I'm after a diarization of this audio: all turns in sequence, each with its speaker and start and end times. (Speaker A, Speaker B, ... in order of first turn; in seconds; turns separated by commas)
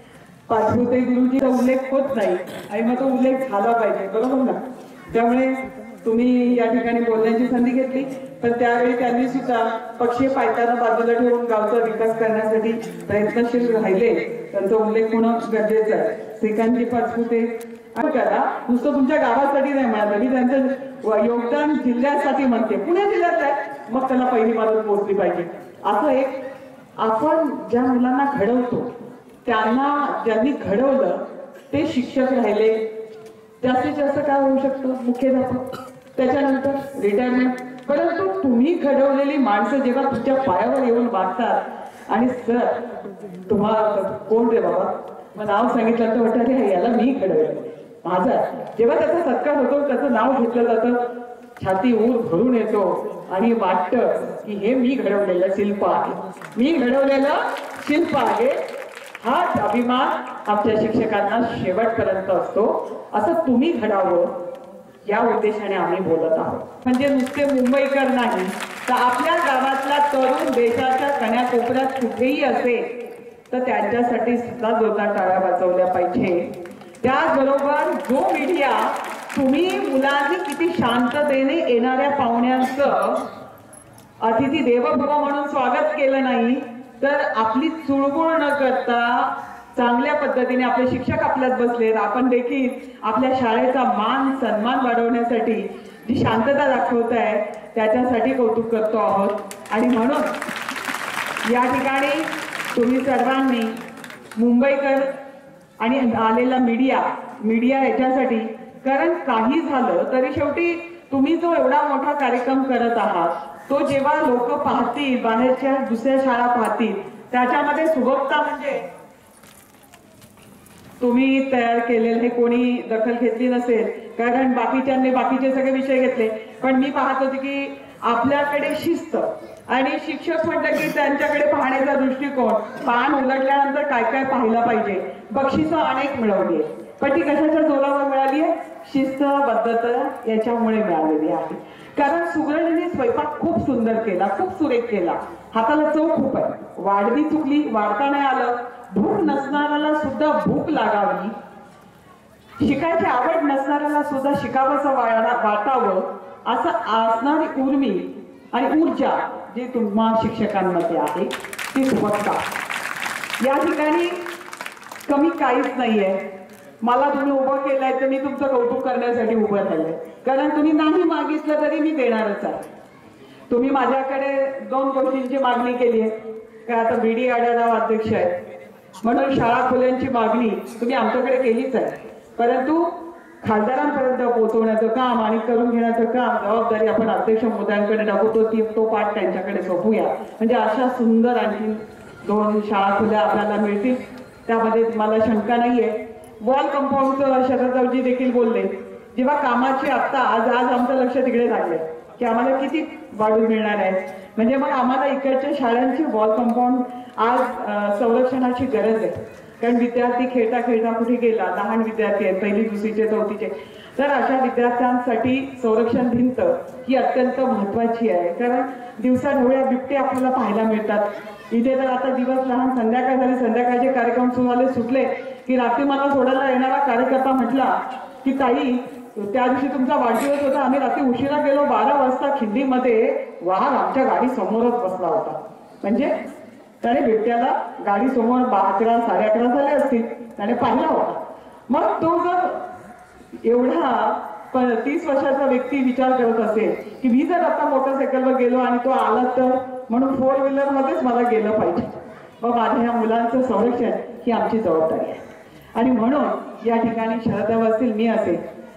Speaker A: 0.5-26.4, Speaker A: 27.0-28.9, Speaker A: 29.4-32.8, Speaker A: 33.6-42.8, Speaker A: 43.4-51.0, Speaker A: 51.6-58.6, Speaker A: 59.2-64.4, Speaker A: 65.0-83.2, Speaker A: 84.2-100.4, Speaker A: 101.4-103.8, Speaker A: 104.3-105.2, Speaker A: 105.8-118.9, Speaker A: 121.0-151.3, Speaker A: 152.6-162.4, Speaker A: 163.4-164.2, Speaker A: 165.1-166.2, Speaker A: 166.8-172.6, Speaker A: 173.5-176.1, Speaker A: 176.6-178.3, Speaker A: 179.0-236.1, Speaker A: 236.8-242.7, Speaker A: 243.4-255.2, Speaker A: 255.7-258.4